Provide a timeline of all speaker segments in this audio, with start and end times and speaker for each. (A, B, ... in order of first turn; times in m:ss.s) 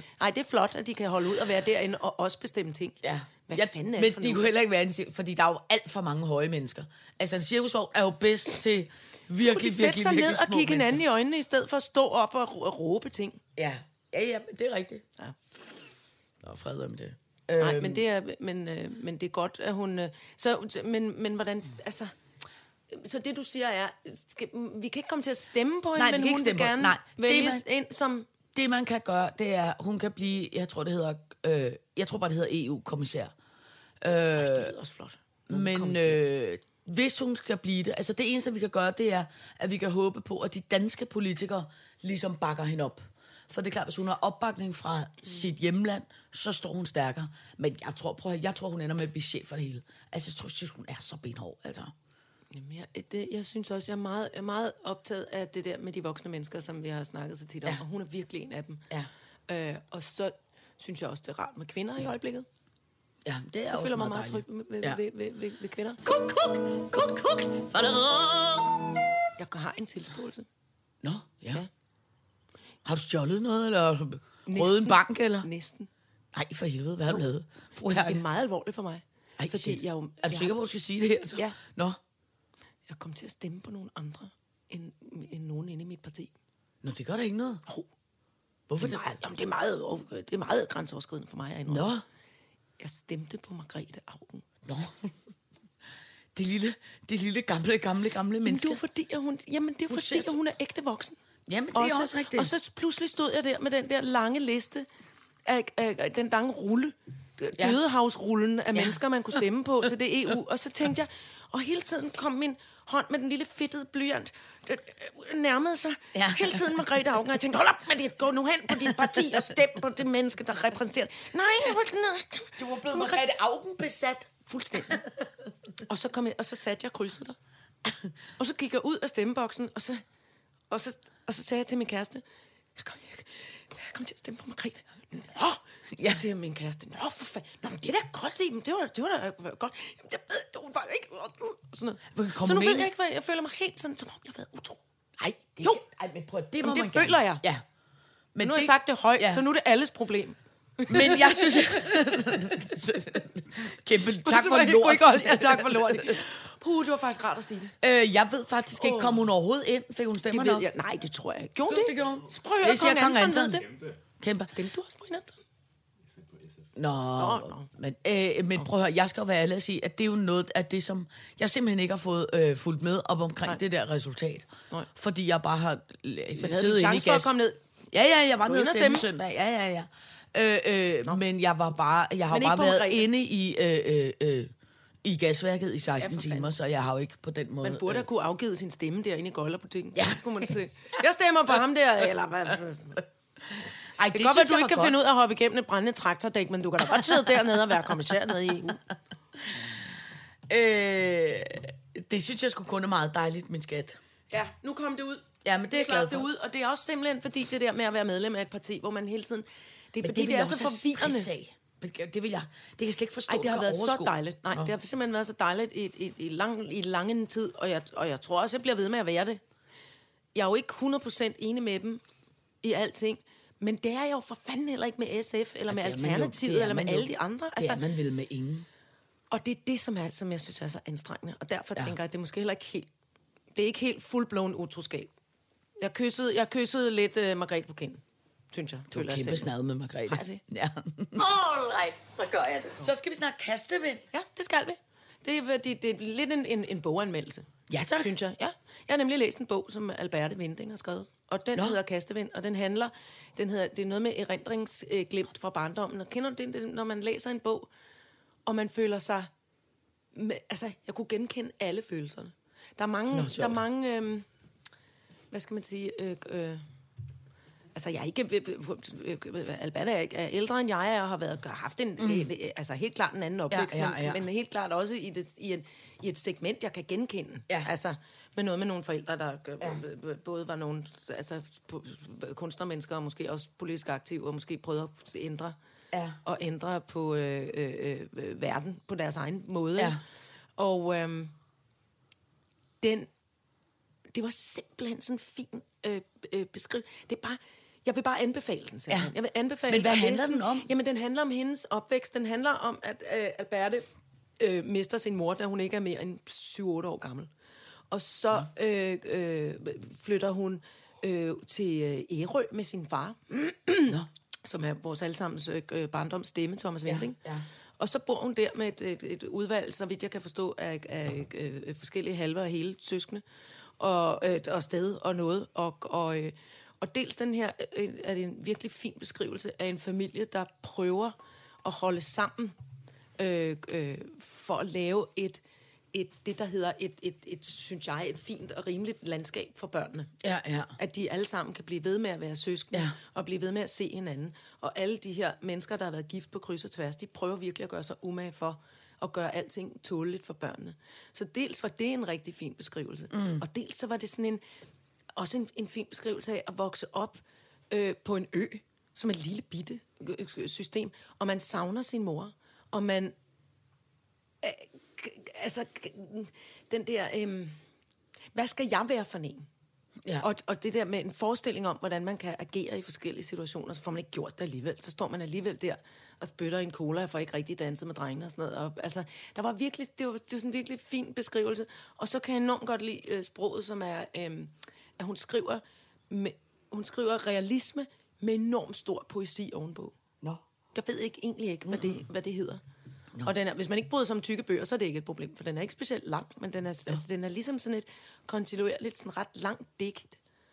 0:00.2-0:04.5 A
0:03.0-0:11.0 B
0:09.4-0:13.4 A
0:13.6-0:15.0 B
0:16.4-0:18.0 B
0:17.6-0:22.1 A
0:22.9-0:28.3 A
0:26.0-0:27.6 B
0:28.5-0:33.3 B
0:34.0-0:34.8 B
0:34.4-0:36.2 A
0:35.5-0:51.9 B
0:52.5-0:58.8 A
0:59.5-1:02.5 A
1:03.2-1:05.0 B
1:03.7-1:06.0 A
1:06.0-1:08.8 C
1:09.4-1:10.5 A
1:11.0-1:11.6 B
1:12.8-1:15.5 B
1:14.5-1:15.9 A
1:16.3-1:18.2 B
1:17.8-1:20.6 A
1:19.4-1:22.0 B
1:22.9-1:26.3 A
1:26.8-1:27.6 B
1:28.7-1:29.2 B
1:28.8-1:32.0 A
1:31.7-1:32.0 B
1:32.8-1:34.4 A
1:34.6-1:35.1 B
1:36.4-1:38.8 B
1:38.4-1:41.2 A
1:39.9-1:40.4 B
1:41.5-1:42.5 B
1:41.7-1:44.9 A
1:45.4-2:03.2 A
1:48.7-1:49.0 B
1:56.1-1:56.7 B
1:58.8-1:59.3 B
2:02.6-2:04.3 B
2:04.4-2:05.0 A
2:04.9-2:05.3 B
2:05.8-2:07.4 A
2:08.4-2:10.0 A
2:10.7-2:12.2 A
2:12.8-2:24.8 A
2:16.0-2:16.2 B
2:22.1-2:22.9 B
2:25.2-2:27.6 B
2:26.6-2:27.4 A
2:28.3-2:29.4 B
2:28.4-2:32.4 A
2:30.9-2:36.2 B
2:34.0-2:37.8 A
2:37.8-2:40.7 B
2:38.8-2:39.3 A
2:40.3-2:43.7 A
2:41.7-2:43.7 B
2:44.2-2:44.5 B
2:44.5-2:45.4 A
2:46.8-2:57.3 B
2:47.2-2:47.7 A
2:56.4-2:57.6 A
2:57.9-3:04.5 B
2:58.4-2:59.1 A
3:02.3-3:03.1 A
3:05.0-3:08.1 B
3:06.0-3:06.5 A
3:07.6-3:13.0 A
3:10.0-3:10.5 B
3:14.0-3:15.0 B
3:14.1-3:18.8 A
3:20.5-3:24.0 B
3:24.3-3:31.3 A
3:25.4-3:26.3 B
3:30.0-3:34.7 B
3:33.3-3:39.4 A
3:40.4-3:42.0 A
3:42.6-3:47.8 A
3:45.7-3:48.7 B
3:49.3-3:52.9 A
3:53.6-3:55.1 A
3:55.8-3:58.0 A
3:58.5-3:59.5 A
3:58.9-4:01.2 B
4:00.1-4:00.4 A
4:01.2-4:02.9 C
4:02.8-4:04.0 B
4:04.1-4:17.7 A
4:07.7-4:08.1 B
4:18.5-4:19.3 A
4:20.1-4:24.3 A
4:23.1-4:23.6 B
4:25.3-4:26.6 A
4:27.8-4:45.6 A
4:32.0-4:32.3 B
4:33.5-4:34.2 B
4:45.9-4:46.2 B
4:46.2-4:50.0 A
4:50.6-4:51.3 A
4:52.8-4:53.1 A
4:54.1-5:03.9 A
4:59.7-5:00.7 B
5:04.4-5:07.3 A
5:07.9-5:17.2 A
5:16.9-5:17.5 B
5:17.8-5:23.2 A
5:23.8-5:32.6 A
5:33.2-5:35.4 A
5:35.9-5:40.1 A
5:40.2-5:40.8 B
5:40.8-5:54.4 A
5:53.1-5:53.4 B
5:55.2-6:03.1 A
6:04.4-6:07.6 A
6:08.3-6:09.5 A
6:10.2-6:30.0 A
6:30.8-6:32.6 A
6:31.7-6:32.0 B
6:33.2-6:40.2 A